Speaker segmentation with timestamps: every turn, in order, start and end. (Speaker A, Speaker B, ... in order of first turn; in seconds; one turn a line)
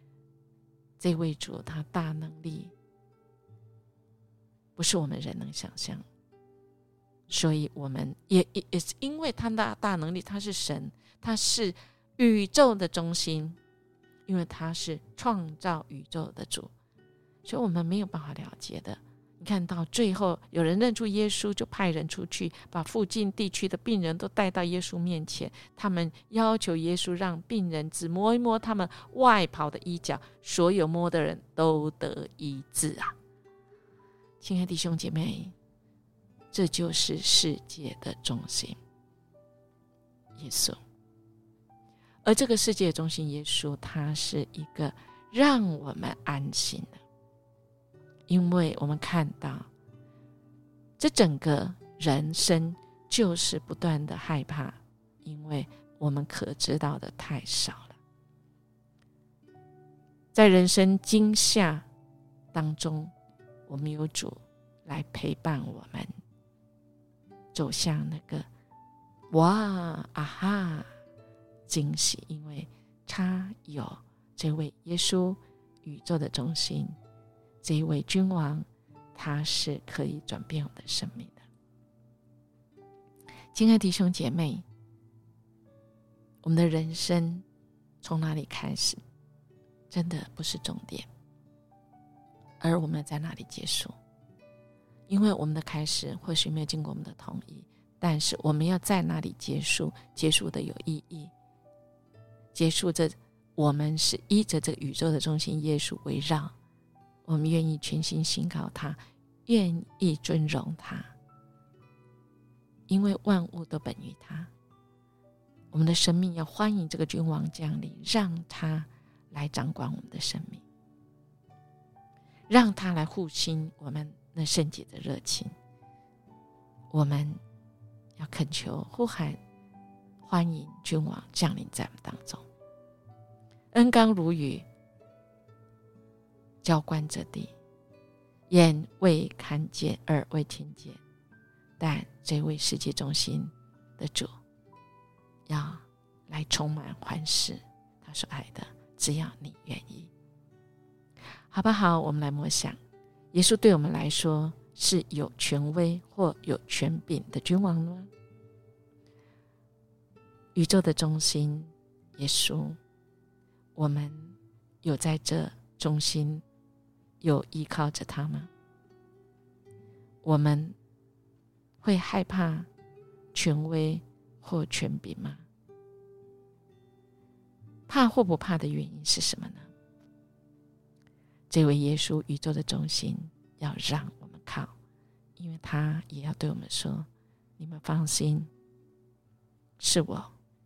Speaker A: 1.0-2.7
Speaker A: 4.8-6.0
Speaker A: 7.3-13.6
Speaker A: 14.2-16.7
Speaker A: 17.4-33.1
Speaker A: 34.4-35.5
Speaker A: 36.5-38.8
Speaker A: 40.4-40.8
Speaker A: 42.2-47.0
Speaker A: 48.3-49.7
Speaker A: 51.0-58.0
Speaker A: 60.3-61.9
Speaker A: 62.5-63.1
Speaker A: 63.7-66.1
Speaker A: 67.5-68.5
Speaker A: 69.3-70.9
Speaker A: 71.7-76.9
Speaker A: 77.6-81.4
Speaker A: 83.5-84.6
Speaker A: 86.4-87.4
Speaker A: 88.0-89.0
Speaker A: 89.9-91.1
Speaker A: 92.6-93.9
Speaker A: 95.1-101.3
Speaker A: 102.5-106.5
Speaker A: 107.2-111.1
Speaker A: 112.9-114.5
Speaker A: 115.7-120.6
Speaker A: 122.5-125.5
Speaker A: 126.9-127.4
Speaker A: 128.2-129.4
Speaker A: 130.2-132.4
Speaker A: 133.7-134.6
Speaker A: 136.6-137.5
Speaker A: 138.5-141.0
Speaker A: 141.8-144.3
Speaker A: 145.5-150.1
Speaker A: 151.5-152.8
Speaker A: 153.3-158.1
Speaker A: 160.5-162.8
Speaker A: 163.8-166.4
Speaker A: 167.2-168.5
Speaker A: 170.2-170.8
Speaker A: 171.8-172.7
Speaker A: 173.3-175.4
Speaker A: 177.9-179.7
Speaker A: 181.5-184.7
Speaker A: 185.4-187.1
Speaker A: 187.6-188.5
Speaker A: 189.8-190.3